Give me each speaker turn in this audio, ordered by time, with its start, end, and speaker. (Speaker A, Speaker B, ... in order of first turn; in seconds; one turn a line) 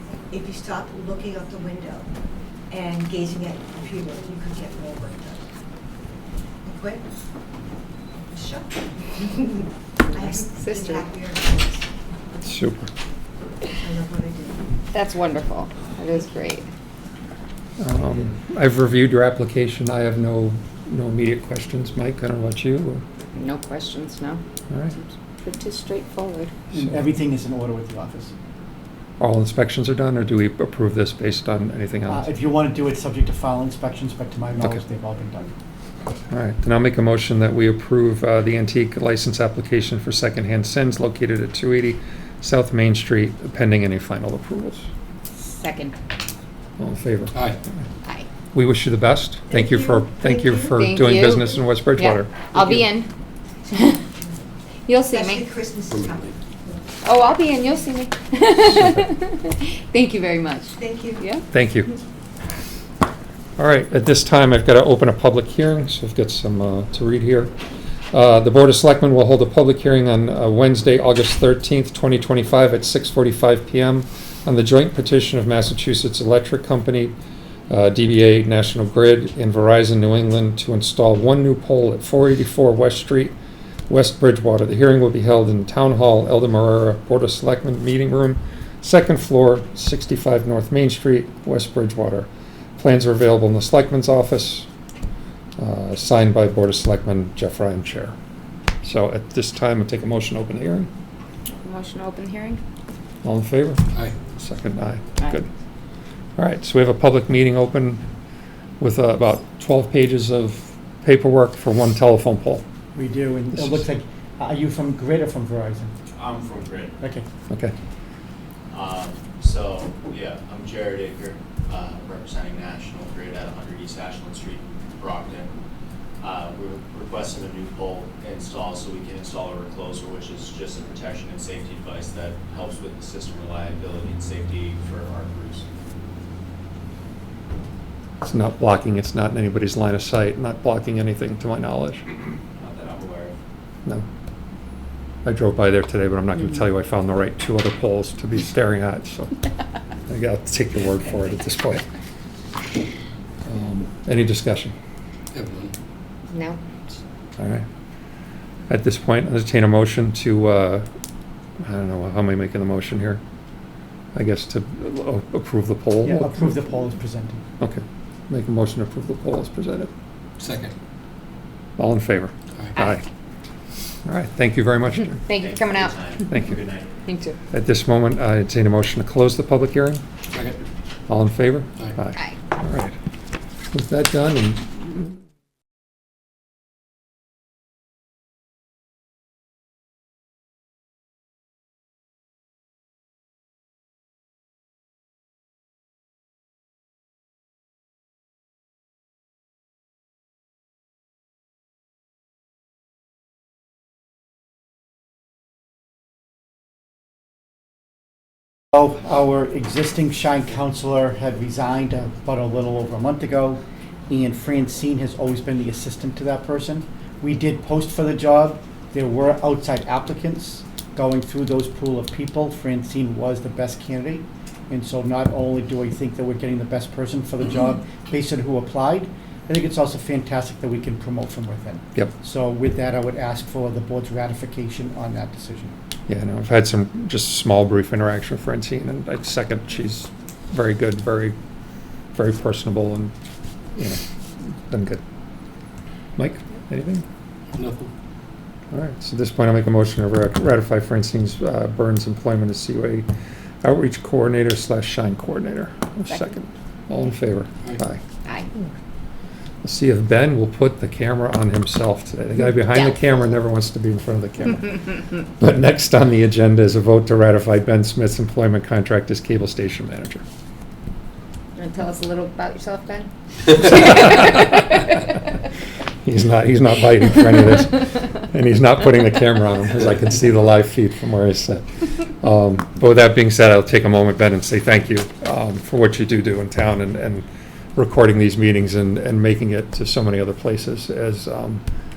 Speaker A: 0.3-2.1
Speaker A: 2.7-5.5
Speaker A: 6.6-7.0
Speaker A: 8.3-11.9
Speaker B: 10.1-11.1
Speaker C: 12.4-12.9
Speaker A: 13.7-14.7
Speaker B: 14.9-16.7
Speaker C: 17.8-23.0
Speaker B: 23.3-24.4
Speaker C: 24.7-24.9
Speaker B: 24.9-26.5
Speaker D: 26.7-28.3
Speaker C: 29.2-32.3
Speaker D: 32.1-35.5
Speaker C: 36.3-44.9
Speaker B: 45.3-46.0
Speaker C: 46.8-47.5
Speaker C: 48.5-52.8
Speaker A: 49.5-50.7
Speaker B: 50.8-53.1
Speaker B: 53.7-54.0
Speaker B: 54.9-55.5
Speaker A: 55.1-56.8
Speaker E: 55.9-56.3
Speaker B: 57.0-61.4
Speaker A: 60.8-61.2
Speaker C: 61.5-62.0
Speaker C: 63.6-67.5
Speaker C: 68.1-77.2
Speaker C: 77.7-83.3
Speaker C: 83.9-94.7
Speaker C: 95.6-98.2
Speaker C: 98.8-100.9
Speaker B: 101.5-102.6
Speaker C: 103.2-105.5
Speaker C: 106.4-108.0
Speaker C: 108.8-112.6
Speaker D: 112.9-115.9
Speaker C: 113.5-113.8
Speaker F: 116.1-117.0
Speaker D: 117.0-117.2
Speaker F: 118.7-125.6
Speaker F: 126.2-135.7
Speaker C: 138.2-142.2
Speaker F: 142.5-143.4
Speaker C: 145.2-149.3
Speaker C: 150.1-151.8
Speaker C: 153.4-154.7
Speaker E: 155.3-155.7
Speaker B: 156.3-156.6
Speaker C: 157.4-157.6
Speaker C: 158.7-160.8
Speaker C: 161.6-163.2
Speaker C: 164.1-166.6
Speaker D: 166.0-167.4
Speaker C: 167.6-169.9
Speaker E: 170.4-170.7
Speaker C: 171.8-173.0
Speaker C: 174.0-175.2
Speaker B: 175.1-176.3
Speaker F: 175.3-177.0
Speaker C: 176.2-176.6
Speaker B: 177.0-177.4
Speaker C: 177.5-180.0
Speaker E: 180.3-180.6
Speaker C: 181.1-182.9
Speaker C: 183.7-185.1
Speaker D: 208.7-235.7
Speaker C: 236.1-241.3
Speaker C: 242.1-243.1
Speaker C: 243.8-245.0
Speaker C: 246.2-247.0
Speaker E: 247.5-247.9
Speaker C: 248.7-253.1
Speaker C: 253.6-258.0
Speaker B: 256.1-256.3
Speaker C: 259.6-270.2
Speaker B: 262.5-263.1
Speaker B: 271.6-274.3
Speaker C: 273.5-275.1
Speaker C: 276.0-291.6